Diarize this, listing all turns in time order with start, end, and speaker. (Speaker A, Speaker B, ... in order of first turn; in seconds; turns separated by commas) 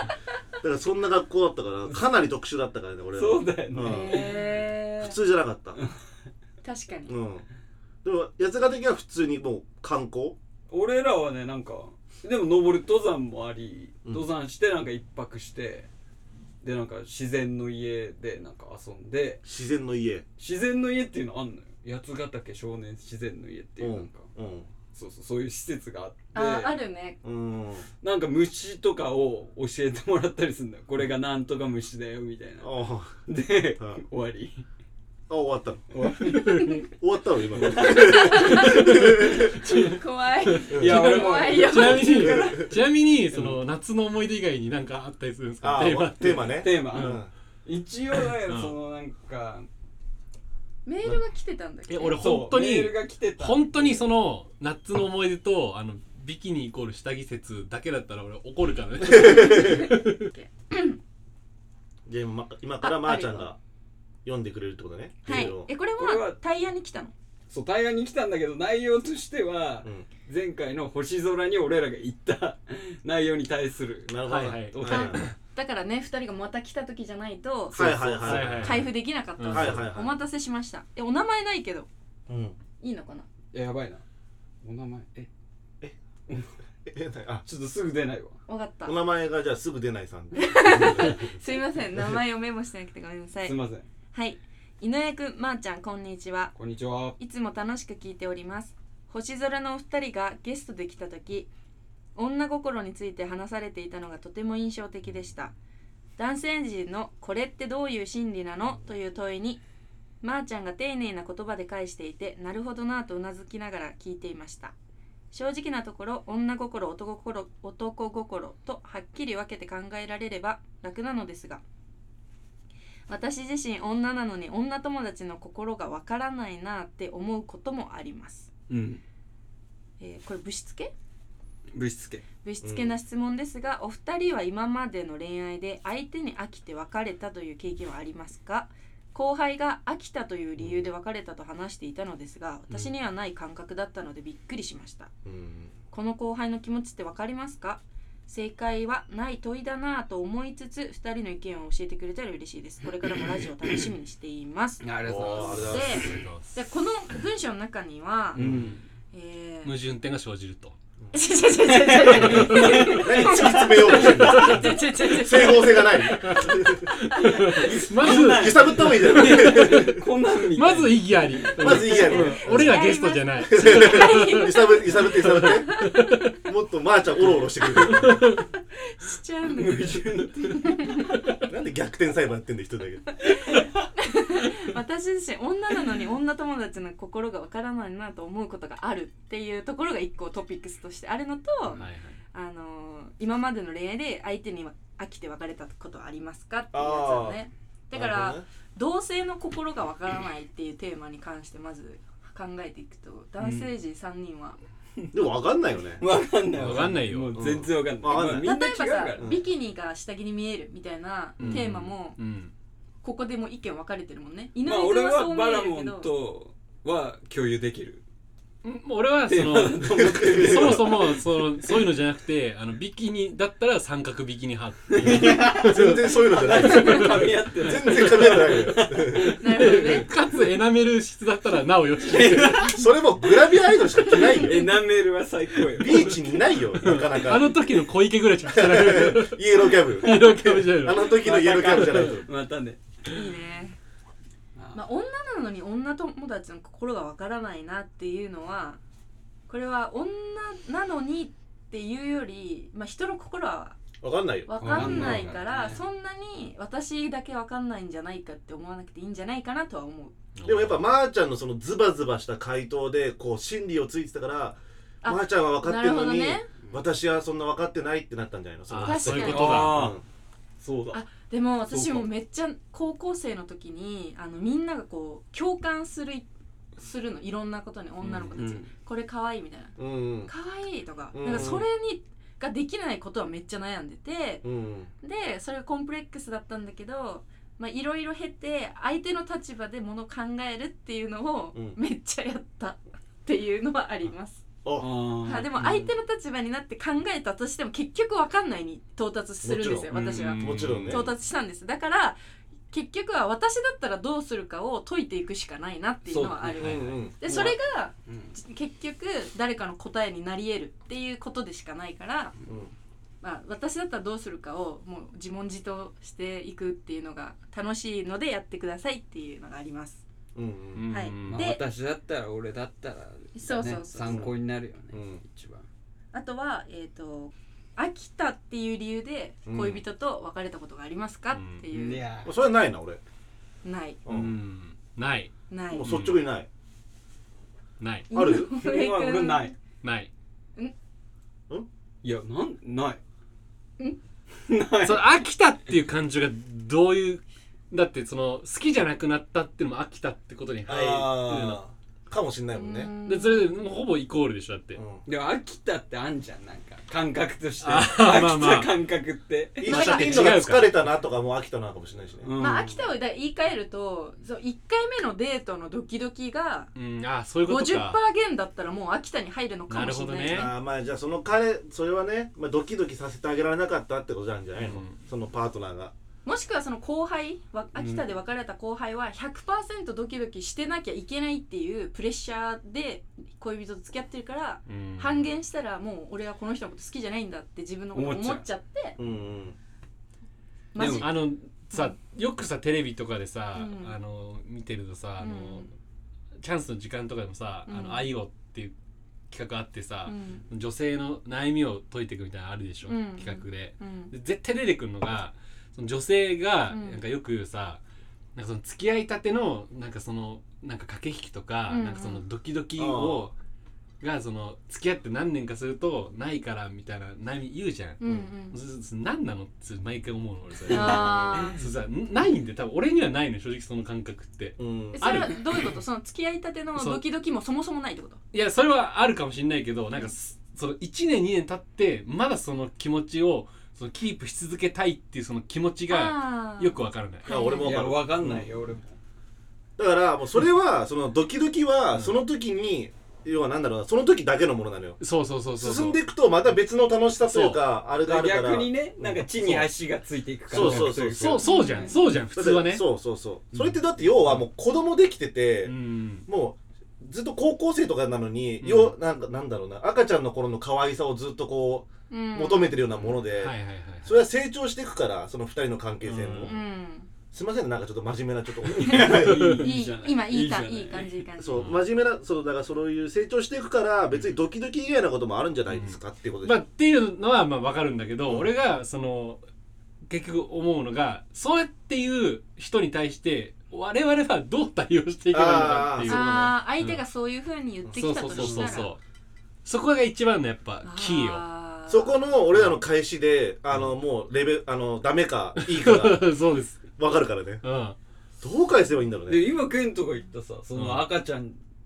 Speaker A: 0.6-4.3, Speaker B: 3.1-4.4, Speaker C: 3.8-5.2, Speaker A: 5.0-5.8, Speaker C: 6.6-7.2, Speaker A: 7.1-7.5, Speaker A: 8.0-10.4, Speaker B: 10.7-15.9, Speaker B: 16.6-19.4, Speaker A: 19.4-20.2, Speaker B: 20.4-24.3, Speaker A: 23.8-24.7, Speaker B: 24.9-26.7, Speaker C: 26.3-27.2, Speaker A: 27.2-27.9, Speaker B: 28.0-32.7, Speaker A: 32.6-33.2, Speaker B: 33.3-34.7, Speaker A: 35.3-35.8, Speaker B: 35.9-36.7, Speaker D: 36.4-36.8, Speaker C: 36.4-36.9, Speaker A: 36.9-39.6, Speaker B: 37.6-38.3, Speaker C: 37.8-42.6, Speaker D: 38.4-47.2, Speaker A: 40.7-41.0, Speaker B: 40.7-42.2, Speaker A: 42.2-42.7, Speaker A: 45.6-47.3, Speaker B: 46.2-49.7, Speaker D: 48.5-48.8, Speaker C: 50.9-52.3, Speaker D: 51.9-60.3, Speaker B: 52.1-54.0, Speaker A: 59.1-59.8, Speaker C: 59.2-61.0, Speaker A: 62.1-63.6, Speaker C: 62.8-63.5, Speaker A: 64.2-65.7, Speaker C: 65.2-67.1, Speaker B: 66.0-66.4, Speaker B: 67.5-74.2, Speaker A: 74.1-75.3, Speaker D: 74.3-75.3, Speaker B: 74.7-75.1, Speaker C: 74.9-81.9, Speaker A: 77.7-78.9, Speaker B: 77.8-78.7, Speaker D: 78.2-79.9, Speaker A: 79.5-80.2, Speaker A: 82.3-82.6, Speaker C: 82.8-83.3, Speaker B: 83.5-84.0, Speaker B: 84.6-85.3, Speaker B: 86.3-86.5, Speaker A: 86.9-87.4, Speaker B: 87.5-88.4, Speaker C: 88.5-89.0, Speaker A: 88.8-91.3, Speaker C: 90.3-93.6, Speaker B: 93.4-93.9, Speaker C: 94.1-96.5, Speaker B: 96.6-97.2, Speaker C: 97.2-101.5, Speaker C: 102.2-105.5, Speaker C: 106.2-109.6, Speaker C: 110.2-114.7, Speaker C: 115.3-121.6, Speaker C: 123.1-128.5, Speaker B: 128.7-129.0, Speaker C: 130.0-130.9, Speaker B: 131.7-132.3, Speaker C: 132.4-145.1, Speaker A: 132.6-132.9, Speaker A: 140.6-140.9, Speaker A: 145.3-145.7, Speaker C: 145.9-158.4, Speaker B: 154.8-155.8, Speaker A: 155.1-156.1, Speaker D: 156.0-156.6, Speaker A: 158.4-158.7, Speaker B: 158.4-158.8, Speaker C: 159.1-159.7, Speaker D: 159.6-160.8, Speaker C: 161.1-166.4, Speaker B: 161.6-164.4, Speaker D: 162.2-162.9, Speaker A: 162.6-166.9, Speaker D: 164.0-164.8, Speaker D: 166.0-176.3, Speaker C: 167.2-167.6, Speaker B: 167.2-171.9, Speaker A: 168.0-170.0, Speaker A: 171.6-172.8, Speaker C: 171.7-176.2, Speaker A: 173.5-175.8, Speaker A: 176.4-178.2, Speaker D: 177.8-178.4, Speaker C: 178.8-181.1, Speaker B: 179.5-180.8, Speaker A: 181.5-183.2, Speaker C: 183.3-204.6, Speaker D: 191.7-192.2, Speaker A: 196.7-197.4, Speaker A: 197.9-198.4, Speaker B: 203.4-203.7, Speaker A: 205.1-206.0, Speaker B: 206.0-209.3, Speaker D: 206.6-207.5, Speaker A: 206.6-208.5, Speaker C: 208.1-212.2, Speaker A: 209.2-209.4, Speaker D: 211.4-212.5, Speaker C: 213.0-216.1, Speaker B: 214.6-218.0, Speaker D: 218.6-227.3, Speaker B: 219.3-221.2, Speaker A: 219.9-220.9, Speaker B: 224.9-229.8, Speaker A: 225.1-229.3, Speaker C: 229.4-230.1, Speaker D: 229.4-232.8, Speaker B: 232.0-232.8, Speaker A: 232.6-234.7, Speaker B: 234.1-236.2, Speaker C: 234.2-234.5, Speaker A: 235.8-237.6, Speaker D: 236.8-242.2, Speaker A: 238.5-242.3, Speaker B: 240.3-242.8, Speaker C: 243.1-243.8, Speaker B: 244.6-244.8, Speaker C: 244.7-248.8, Speaker C: 249.5-253.8, Speaker A: 254.0-255.3, Speaker C: 254.5-260.2, Speaker B: 254.6-255.8, Speaker D: 260.4-260.9, Speaker A: 260.4-270.0, Speaker C: 265.0-266.5, Speaker D: 268.7-269.9, Speaker C: 268.8-269.7, Speaker B: 269.2-270.0, Speaker B: 270.6-271.0, Speaker C: 270.9-284.4, Speaker B: 271.7-272.1, Speaker B: 278.3-278.7, Speaker A: 279.8-280.3, Speaker A: 281.1-281.6, Speaker A: 284.4-284.9, Speaker C: 285.0-294.4, Speaker A: 294.6-294.9, Speaker B: 294.8-295.9, Speaker C: 295.2-302.2, Speaker A: 299.4-301.1, Speaker B: 299.9-300.4, Speaker D: 300.1-301.1, Speaker C: 302.7-312.4, Speaker B: 306.1-308.3, Speaker A: 306.6-307.2, Speaker C: 313.2-320.0, Speaker A: 320.4-320.9, Speaker D: 320.7-321.5, Speaker C: 320.9-321.6, Speaker B: 321.2-325.7, Speaker C: 323.4-324.3, Speaker A: 324.1-324.3, Speaker A: 324.9-325.2, Speaker C: 326.1-332.1, Speaker A: 329.5-329.8, Speaker D: 331.3-331.6, Speaker B: 331.7-332.3, Speaker A: 332.2-333.0, Speaker C: 333.6-334.0, Speaker A: 334.1-334.3, Speaker D: 334.1-336.2, Speaker C: 335.5-335.9, Speaker A: 335.7-336.5, Speaker D: 337.8-338.1, Speaker C: 338.1-339.5, Speaker A: 338.1-338.5, Speaker B: 338.3-339.6, Speaker D: 339.8-340.1, Speaker B: 342.0-343.0, Speaker B: 344.4-345.1, Speaker D: 344.8-351.6, Speaker A: 350.7-352.9, Speaker C: 352.5-353.5, Speaker D: 353.0-354.8, Speaker A: 354.8-355.0, Speaker B: 355.1-359.8, Speaker D: 357.6-358.7, Speaker A: 359.6-362.3, Speaker D: 359.6-360.8, Speaker C: 359.7-360.4, Speaker B: 362.2-362.8, Speaker C: 362.4-366.7, Speaker D: 366.8-368.0, Speaker C: 367.5-370.5, Speaker D: 369.7-370.5, Speaker A: 370.3-375.9, Speaker D: 374.6-375.0, Speaker C: 376.2-389.0, Speaker B: 377.8-378.1, Speaker D: 384.7-385.4, Speaker B: 387.9-388.4, Speaker A: 389.0-389.6, Speaker C: 390.7-391.9, Speaker B: 390.8-391.1, Speaker D: 390.8-395.7, Speaker C: 393.6-394.0, Speaker C: 395.2-395.7, Speaker D: 396.4-398.7, Speaker C: 397.7-398.1, Speaker D: 399.3-407.8, Speaker C: 400.1-400.4, Speaker C: 402.9-404.1, Speaker C: 406.7-407.0, Speaker D: 408.4-413.4, Speaker C: 411.7-412.2, Speaker A: 412.8-413.3, Speaker D: 414.0-425.8, Speaker C: 418.0-418.6, Speaker A: 418.0-418.3, Speaker C: 420.7-421.6, Speaker A: 424.6-425.2, Speaker C: 425.0-428.2, Speaker D: 426.8-427.0, Speaker D: 428.3-437.4, Speaker C: 435.9-437.7, Speaker A: 437.3-438.5, Speaker B: 437.6-439.0, Speaker A: 439.8-445.0, Speaker D: 445.0-446.0, Speaker A: 445.6-449.7, Speaker D: 447.2-447.6, Speaker B: 448.0-451.9, Speaker A: 450.5-451.4, Speaker D: 450.5-452.9, Speaker C: 451.4-452.2, Speaker A: 452.3-455.8, Speaker D: 455.6-456.2, Speaker A: 456.3-463.5, Speaker D: 458.6-458.9, Speaker C: 462.1-462.8, Speaker D: 463.3-464.2, Speaker A: 464.1-466.6, Speaker D: 466.0-466.6, Speaker C: 466.4-467.1, Speaker A: 467.3-469.4, Speaker B: 468.6-471.2, Speaker C: 469.0-471.7, Speaker D: 469.2-469.7, Speaker A: 471.4-476.6, Speaker D: 471.5-471.8, Speaker D: 475.7-479.4, Speaker D: 480.1-487.0, Speaker A: 485.3-486.2, Speaker C: 486.0-488.9, Speaker D: 487.9-489.0, Speaker D: 489.6-491.4, Speaker C: 490.8-492.3, Speaker A: 491.9-496.3, Speaker D: 495.6-496.9, Speaker A: 497.0-497.6, Speaker D: 497.6-498.0, Speaker A: 498.4-499.4, Speaker B: 499.3-501.6, Speaker D: 500.8-501.1